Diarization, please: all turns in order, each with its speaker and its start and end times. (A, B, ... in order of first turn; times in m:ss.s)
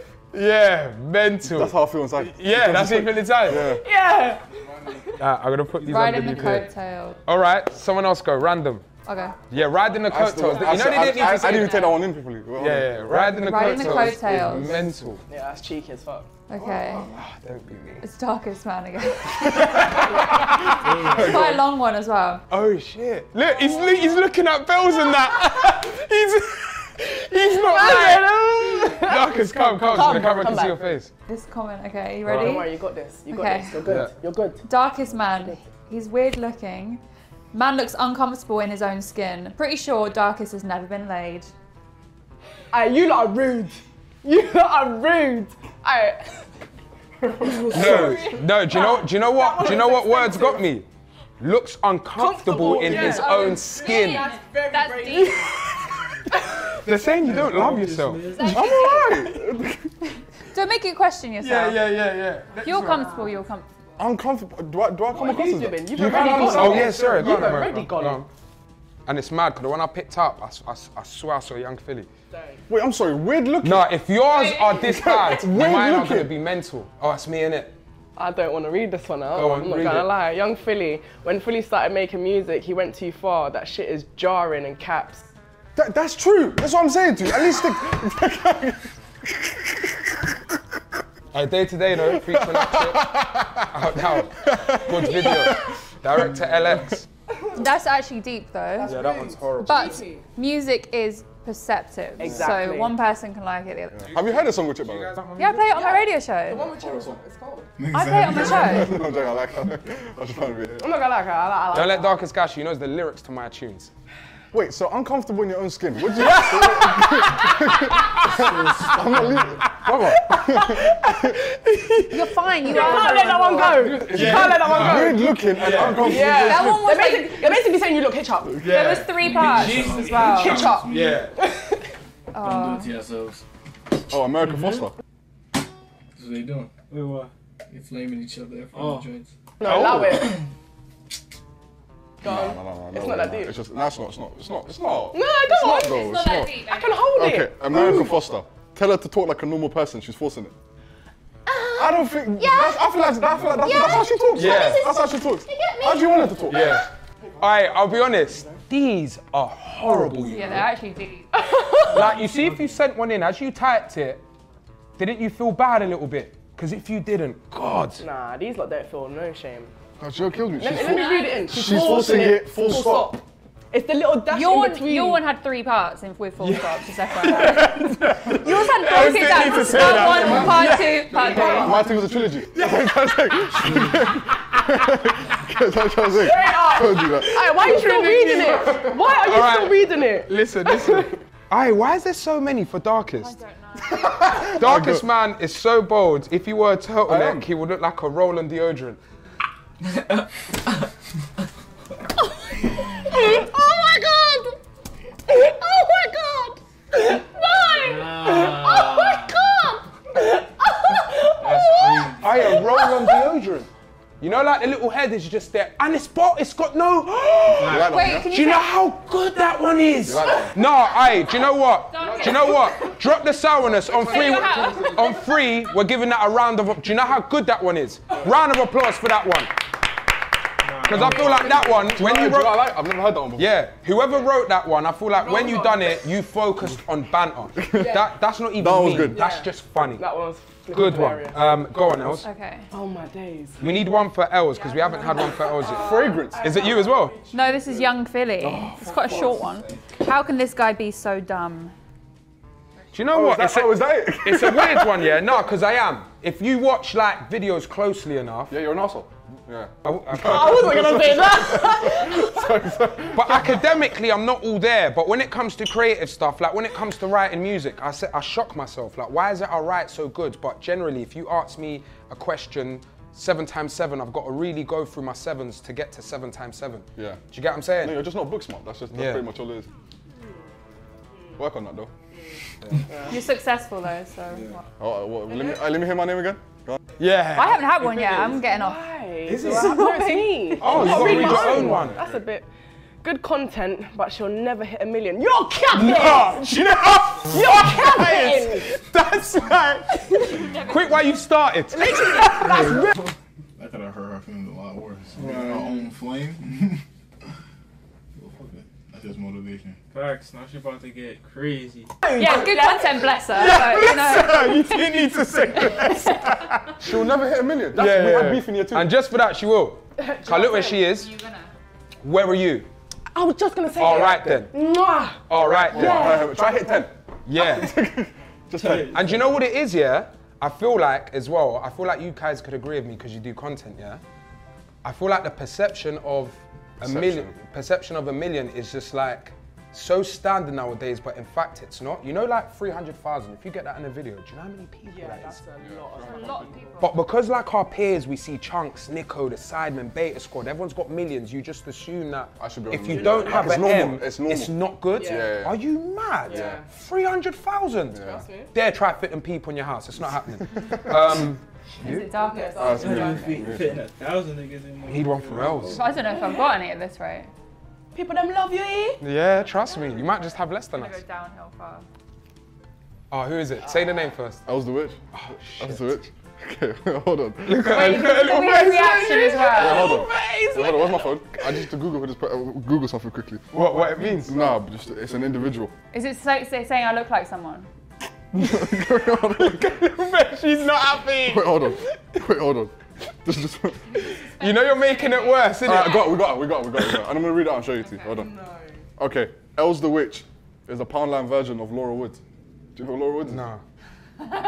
0:00.3-0:03.7 A
0:01.4-0:03.8 B
0:03.7-0:05.1 C
0:05.2-0:06.7 A
0:05.8-0:07.2 D
0:07.2-0:08.9 A
0:09.0-0:09.4 D
0:09.5-0:12.0 A
0:10.0-0:13.0 B
0:11.4-0:11.9 D
0:12.6-0:15.2 A
0:13.2-0:14.8 D
0:15.3-0:16.3 C
0:16.5-0:17.1 D
0:17.0-0:18.0 A
0:18.0-0:20.2 D
0:19.4-0:20.9 A
0:20.8-0:21.4 E
0:21.1-0:21.6 B
0:21.1-0:22.4 D
0:22.5-0:31.1 A
0:27.2-0:31.0 C
0:31.3-0:32.7 D
0:32.2-0:32.5 A
0:32.3-0:34.6 C
0:33.3-0:33.9 D
0:33.8-0:34.1 A
0:34.6-0:41.5 D
0:35.2-0:35.6 C
0:42.7-0:46.5 C
0:47.2-0:50.7 C
0:47.7-0:50.9 A
0:51.4-0:54.3 A
0:52.2-0:55.5 C
0:52.8-0:55.5 D
0:56.7-0:58.2 A
0:57.2-0:58.7 E
0:58.3-0:59.2 D
0:58.4-0:59.9 B
1:00.5-1:01.8 D
1:01.4-1:03.1 A
1:02.5-1:03.7 D
1:04.0-1:07.3 B
1:05.1-1:08.2 C
1:06.4-1:08.3 A
1:09.0-1:12.1 A
1:12.3-1:12.6 C
1:12.7-1:13.9 B
1:13.6-1:17.8 A
1:14.3-1:15.5 D
1:14.8-1:16.3 B
1:18.2-1:25.3 C
1:19.3-1:20.1 A
1:25.8-1:30.3 B
1:31.3-1:33.0 A
1:31.9-1:36.5 B
1:33.7-1:37.0 A
1:37.5-1:39.0 D
1:38.8-1:40.2 C
1:38.8-1:40.0 A
1:39.6-1:44.1 D
1:42.2-1:42.9 C
1:44.0-1:45.2 B
1:44.1-1:45.7 A
1:45.4-1:46.6 D
1:45.7-1:47.7 C
1:46.6-1:47.2 B
1:47.8-1:49.0 F
1:47.9-1:48.9 D
1:48.6-1:50.9 B
1:50.8-1:52.2 C
1:51.7-1:53.9 A
1:54.5-2:01.4 B
1:56.0-1:59.0 A
1:58.3-1:59.6 G
1:59.6-2:00.2 A
2:00.2-2:08.6 C
2:02.1-2:03.8 D
2:03.5-2:07.0 B
2:04.0-2:06.3 A
2:06.4-2:07.6 D
2:08.6-2:11.3 A
2:08.6-2:10.8 D
2:09.1-2:11.1 G
2:10.4-2:11.8 C
2:12.3-2:12.9 D
2:12.4-2:13.4 G
2:14.1-2:15.0 B
2:16.2-2:16.7 G
2:16.9-2:17.3 E
2:17.7-2:19.3 G
2:18.7-2:19.1 E
2:19.6-2:20.4 C
2:19.6-2:19.9 A
2:22.2-2:23.6 C
2:22.3-2:26.6 B
2:25.1-2:28.2 C
2:25.5-2:27.0 D
2:27.1-2:30.5 B
2:31.5-2:36.4 C
2:31.8-2:36.8 B
2:34.3-2:34.8 A
2:36.4-2:36.8 A
2:37.4-2:40.7 A
2:40.3-2:41.4 D
2:41.3-2:42.0 C
2:41.9-2:44.2 A
2:42.0-2:42.6 E
2:45.0-2:48.0 A
2:48.0-2:49.7 C
2:50.0-2:53.2 B
2:50.5-2:55.2 C
2:50.8-2:51.4 D
2:54.3-3:01.8 D
2:56.4-3:01.6 A
2:58.4-3:00.6 C
3:01.2-3:01.8 C
3:01.5-3:09.1 B
3:02.6-3:03.3 A
3:03.5-3:04.0 G
3:06.0-3:10.3 C
3:09.2-3:13.4 A
3:13.2-3:14.2 D
3:14.0-3:15.1 B
3:14.2-3:19.0 A
3:17.1-3:17.5 B
3:19.8-3:20.9 E
3:22.5-3:23.7 F
3:23.0-3:24.6 C
3:25.3-3:33.2 C
3:27.8-3:29.6 E
3:31.0-3:32.7 E
3:32.2-3:33.7 A
3:34.2-3:49.5 A
3:37.5-3:38.1 E
3:37.6-3:38.3 B
3:37.8-3:38.7 D
3:40.0-3:40.6 B
3:41.9-3:42.9 D
3:42.0-3:42.3 B
3:43.8-3:45.4 D
3:50.6-3:52.0 E
3:50.8-3:52.6 A
3:50.9-3:51.9 C
3:51.9-3:53.5 B
3:53.4-4:00.0 A
3:55.2-3:56.1 C
3:57.5-3:58.0 B
3:57.8-3:58.1 C
3:58.6-3:59.4 B
3:59.1-4:01.5 C
4:00.7-4:02.3 A
4:02.2-4:02.7 D
4:02.7-4:03.8 C
4:03.6-4:07.2 A
4:04.7-4:07.8 C
4:05.0-4:06.2 D
4:05.6-4:06.5 B
4:07.3-4:11.7 D
4:08.4-4:09.5 B
4:12.9-4:18.6 A
4:13.1-4:15.4 B
4:18.5-4:23.7 B
4:19.8-4:20.7 A
4:20.2-4:22.6 C
4:23.1-4:38.1 A
4:37.0-4:37.2 B
4:37.8-4:39.7 B
4:38.9-4:39.2 A
4:41.4-4:41.9 B
4:42.1-4:43.2 C
4:43.1-4:44.6 D
4:44.8-4:46.8 B
4:45.3-4:45.6 C
4:47.0-4:47.6 A
4:47.3-4:48.8 D
4:47.9-4:52.5 C
4:49.2-4:50.0 A
4:49.5-4:50.6 D
4:50.6-4:52.0 A
4:50.6-4:52.2 B
4:53.0-4:56.5 C
4:55.7-5:00.0 A
4:57.2-4:58.8 C
4:59.3-5:01.1 F
4:59.9-5:00.4 C
5:00.3-5:01.0 D
5:00.6-5:02.2 A
5:01.7-5:02.9 C
5:02.2-5:03.1 G
5:03.6-5:06.8 F
5:05.1-5:05.8 G
5:08.1-5:09.8 F
5:09.9-5:11.9 E
5:12.0-5:12.6 C
5:12.1-5:14.9 D
5:13.4-5:17.1 A
5:16.8-5:18.9 B
5:17.7-5:21.1 A
5:20.0-5:20.9 C
5:21.1-5:21.4 D
5:22.0-5:22.7 A
5:23.1-5:26.8 C
5:23.8-5:24.5 A
5:25.3-5:26.0 A
5:25.7-5:29.2 B
5:27.3-5:27.7 A
5:28.5-5:29.2 E
5:28.9-5:34.0 A
5:34.8-5:45.4 A
5:36.8-5:37.4 B
5:44.8-5:46.9 C
5:45.5-5:46.6 B
5:46.0-5:46.9 D
5:46.8-6:02.1 A
5:52.4-5:55.6 B
5:52.9-5:53.6 C
5:54.9-5:55.3 C
5:56.2-5:56.7 C
5:56.3-5:56.6 B
5:57.9-5:58.2 B
5:58.0-5:58.5 C
6:01.8-6:03.5 D
6:02.2-6:03.1 C
6:02.5-6:03.8 B
6:02.7-6:05.8 E
6:04.9-6:05.8 A
6:05.7-6:07.3 D
6:05.8-6:06.3 C
6:07.9-6:09.0 C
6:09.0-6:11.0 A
6:09.6-6:10.1 D
6:10.7-6:11.8 D
6:13.1-6:14.4 A
6:14.4-6:17.9 B
6:15.1-6:16.0 A
6:17.4-6:18.9 A
6:17.7-6:20.0 D
6:17.8-6:21.2 C
6:19.5-6:23.6 B
6:23.5-6:24.6 A
6:24.1-6:25.7 B
6:25.9-6:27.7 D
6:28.3-6:29.7 B
6:28.4-6:31.8 A
6:31.2-6:34.2 B
6:34.1-6:36.0 D
6:34.4-6:37.0 A
6:35.6-6:38.3 B
6:38.1-6:38.8 C
6:39.0-6:42.2 B
6:42.7-6:43.4 B
6:43.2-6:43.6 A